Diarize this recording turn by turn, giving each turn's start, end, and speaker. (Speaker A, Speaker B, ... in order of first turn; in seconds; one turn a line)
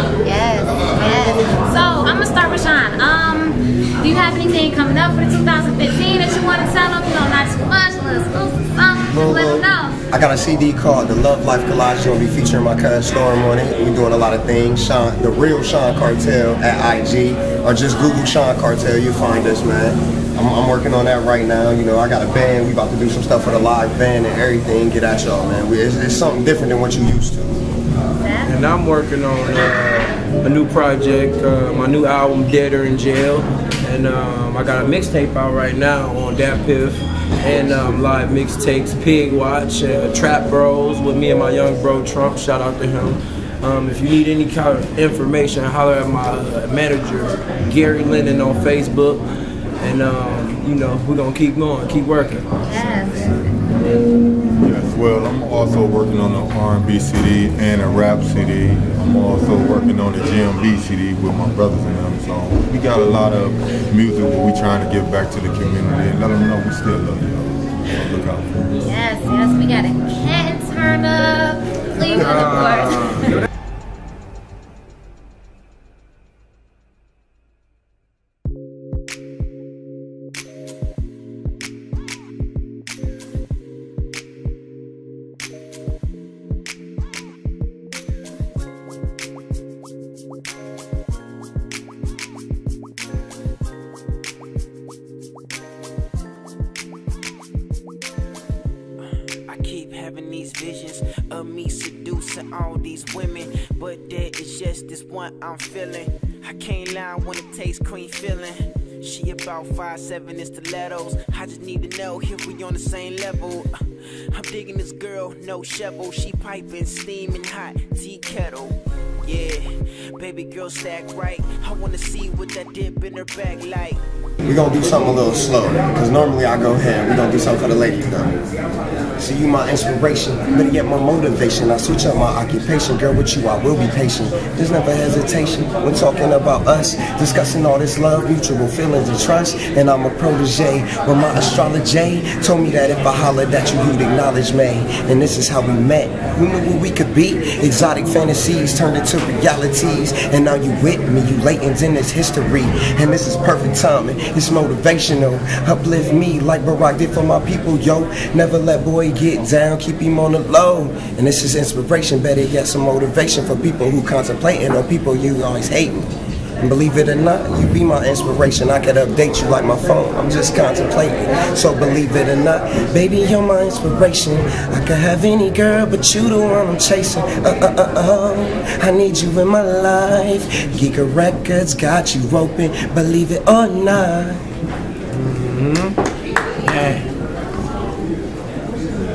Speaker A: 0.2-10.0
Speaker B: 9.1-27.6
Speaker A: 28.2-28.6
Speaker C: 28.4-49.2
Speaker C: 49.8-52.5
Speaker A: 52.6-53.6
Speaker D: 54.6-68.8
Speaker A: 68.8-73.4
Speaker C: 72.2-73.3
Speaker E: 99.0-113.7
Speaker E: 114.3-124.0
Speaker B: 124.5-128.4
Speaker B: 129.2-184.4
Speaker C: 185.2-186.0
Speaker C: 186.6-187.1